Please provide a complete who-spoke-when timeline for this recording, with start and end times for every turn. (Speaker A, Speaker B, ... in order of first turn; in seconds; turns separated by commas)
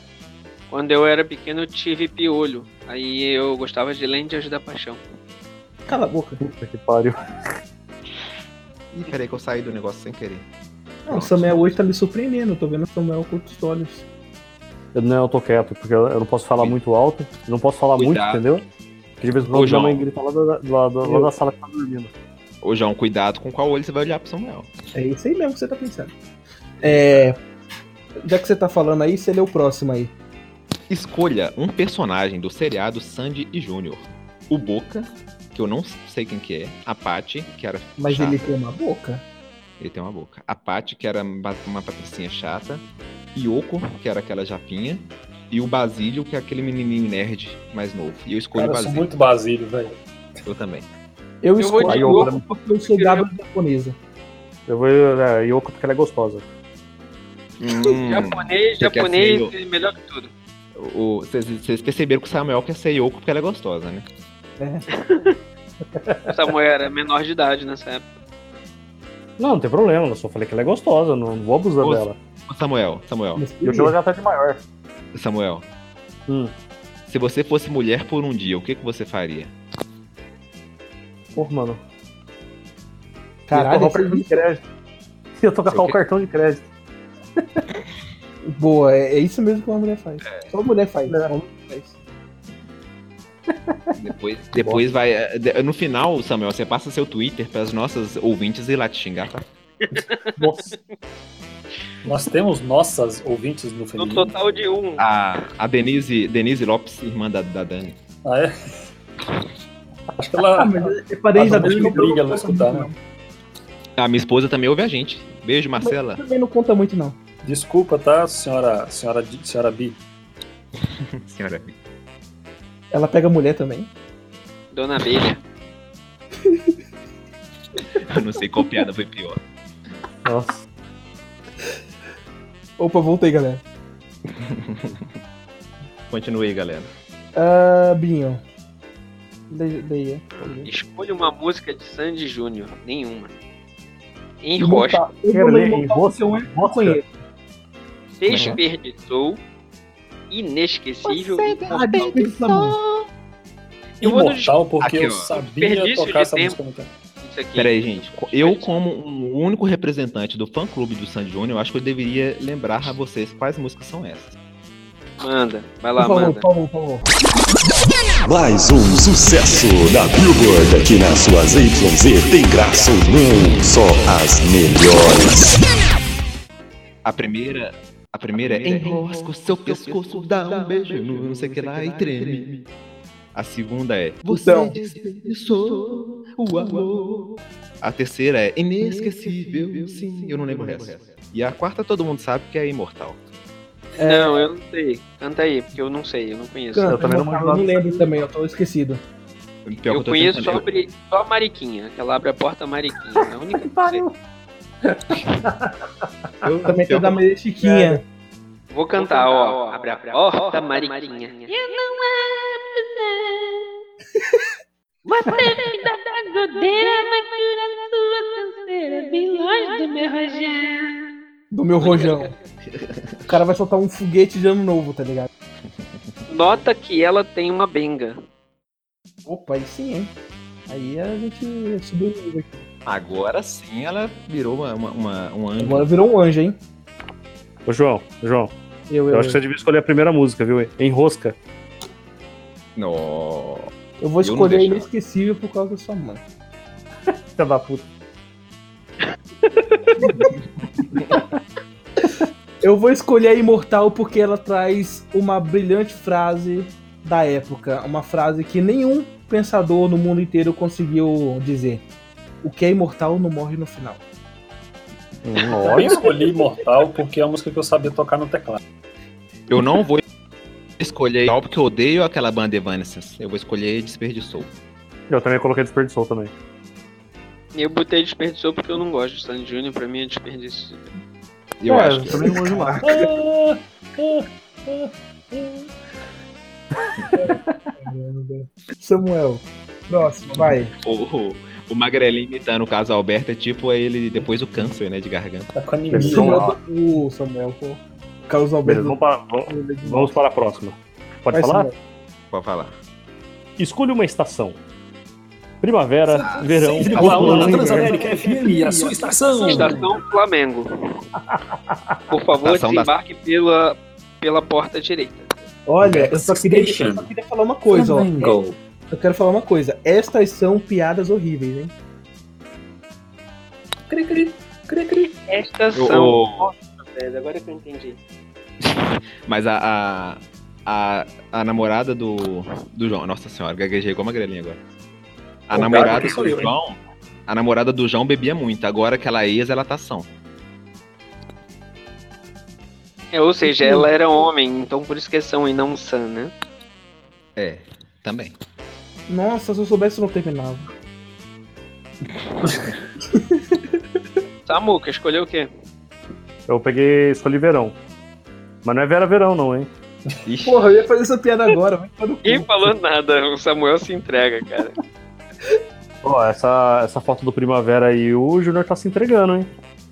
Speaker A: 0.7-5.0, Speaker B: 5.9-6.4, Speaker C: 6.4-7.3, Speaker D: 8.9-10.5, Speaker D: 11.1-11.8, Speaker B: 11.1-14.0, Speaker C: 14.9-18.6, Speaker D: 18.0-18.4, Speaker C: 19.2-22.1, Speaker D: 19.5-20.0, Speaker B: 21.0-21.3, Speaker D: 22.6-24.7, Speaker B: 24.9-26.1, Speaker D: 26.8-27.3, Speaker B: 26.8-27.4, Speaker B: 28.2-30.1, Speaker D: 30.9-38.5, Speaker B: 38.0-39.2, Speaker D: 39.8-49.1, Speaker E: 48.5-49.9, Speaker D: 50.5-50.9, Speaker B: 51.4-54.0, Speaker A: 51.6-53.3, Speaker C: 51.8-52.5, Speaker C: 54.7-56.4, Speaker D: 57.6-59.5, Speaker A: 58.0-60.3, Speaker D: 60.7-64.0, Speaker B: 64.6-65.3, Speaker A: 65.0-65.3, Speaker C: 66.0-66.3, Speaker A: 66.3-68.0, Speaker C: 69.4-72.2, Speaker D: 71.8-73.5, Speaker B: 73.3-74.0, Speaker C: 73.6-74.6, Speaker D: 75.1-75.6, Speaker C: 76.3-76.5, Speaker D: 77.1-79.5, Speaker C: 81.3-81.8, Speaker B: 83.5-84.4, Speaker C: 83.5-84.6, Speaker C: 85.3-86.7, Speaker D: 85.7-86.0, Speaker B: 88.5-92.0, Speaker D: 90.2-90.5, Speaker C: 91.1-91.3, Speaker D: 94.0-99.5, Speaker C: 94.5-94.8, Speaker A: 100.0-100.7, Speaker C: 100.4-100.7, Speaker E: 102.0-104.3, Speaker A: 104.0-105.0, Speaker D: 105.0-108.0, Speaker E: 108.2-108.9, Speaker E: 110.2-112.9, Speaker B: 110.5-113.0, Speaker D: 114.0-116.2, Speaker B: 115.8-117.2, Speaker E: 117.4-120.0, Speaker D: 120.8-121.8, Speaker B: 122.9-123.9, Speaker A: 124.7-125.4, Speaker D: 128.0-129.4, Speaker C: 130.2-130.6, Speaker B: 132.8-133.6, Speaker D: 134.3-135.0, Speaker D: 136.1-136.9, Speaker B: 137.3-138.4, Speaker B: 139.5-140.7, Speaker A: 140.3-143.3, Speaker A: 144.4-145.0, Speaker B: 144.6-147.1, Speaker C: 145.3-147.0, Speaker A: 148.2-149.4, Speaker D: 148.2-148.6, Speaker A: 150.3-152.1, Speaker D: 151.4-152.9, Speaker B: 151.6-152.8, Speaker A: 154.0-154.5, Speaker E: 154.0-156.9, Speaker D: 154.8-155.3, Speaker A: 155.3-156.6, Speaker A: 157.2-158.8, Speaker D: 157.5-164.3, Speaker A: 165.2-166.4, Speaker B: 165.9-167.1, Speaker F: 168.2-175.6, Speaker D: 177.0-182.7, Speaker D: 183.3-193.2, Speaker B: 184.3-184.9, Speaker B: 194.0-194.4, Speaker A: 194.0-197.0, Speaker B: 196.7-199.0, Speaker C: 196.9-198.1, Speaker D: 199.7-200.6, Speaker A: 199.9-204.0, Speaker C: 203.5-204.1, Speaker C: 204.8-205.7, Speaker C: 206.2-206.7, Speaker D: 206.4-207.2, Speaker B: 206.7-208.0, Speaker C: 207.6-208.0, Speaker A: 208.7-211.5, Speaker G: 209.8-213.7, Speaker G: 215.1-221.1, Speaker B: 221.5-222.3, Speaker A: 221.8-222.3, Speaker D: 222.7-223.4, Speaker B: 223.3-225.3, Speaker D: 225.6-226.0, Speaker A: 226.3-228.2, Speaker B: 229.2-230.1, Speaker B: 230.7-232.6, Speaker D: 232.8-235.9, Speaker B: 235.6-236.6, Speaker C: 237.7-238.5, Speaker B: 238.9-239.4, Speaker C: 239.1-241.4, Speaker D: 242.8-244.9, Speaker B: 244.0-246.2, Speaker C: 247.3-247.9, Speaker B: 250.0-250.3, Speaker B: 252.6-261.8, Speaker B: 262.4-264.0, Speaker C: 265.2-266.0, Speaker E: 265.6-268.6, Speaker B: 265.6-266.3, Speaker D: 269.5-270.0, Speaker D: 270.8-274.5, Speaker C: 275.1-276.3, Speaker A: 277.5-280.9, Speaker D: 281.6-282.3, Speaker C: 281.6-282.9, Speaker B: 282.1-283.1, Speaker E: 282.8-285.7, Speaker C: 286.8-287.7, Speaker B: 287.1-290.7, Speaker D: 290.8-295.5, Speaker E: 295.5-296.4, Speaker C: 295.9-296.6, Speaker B: 295.9-300.2, Speaker C: 298.6-301.7, Speaker B: 301.3-301.7, Speaker D: 302.3-302.8, Speaker C: 303.6-304.6, Speaker C: 305.6-309.2, Speaker D: 306.1-307.5, Speaker E: 306.4-309.9, Speaker B: 306.9-308.5, Speaker B: 309.4-309.6, Speaker A: 309.4-310.7, Speaker C: 311.3-311.9, Speaker A: 312.1-315.3, Speaker D: 312.4-312.9, Speaker B: 315.7-318.4, Speaker E: 315.8-317.1, Speaker E: 317.7-318.6, Speaker B: 318.9-321.7, Speaker E: 323.9-325.1, Speaker A: 325.3-328.0, Speaker D: 325.7-326.5, Speaker D: 328.6-334.6, Speaker D: 335.5-340.1, Speaker E: 335.5-336.5, Speaker A: 343.1-346.3, Speaker B: 343.4-343.9, Speaker D: 347.4-348.3, Speaker B: 349.1-350.7, Speaker B: 353.0-353.6, Speaker A: 354.4-355.5, Speaker C: 356.5-357.8, Speaker C: 358.6-359.7, Speaker D: 360.2-360.8, Speaker B: 360.4-362.7, Speaker A: 362.2-364.7, Speaker C: 366.0-369.5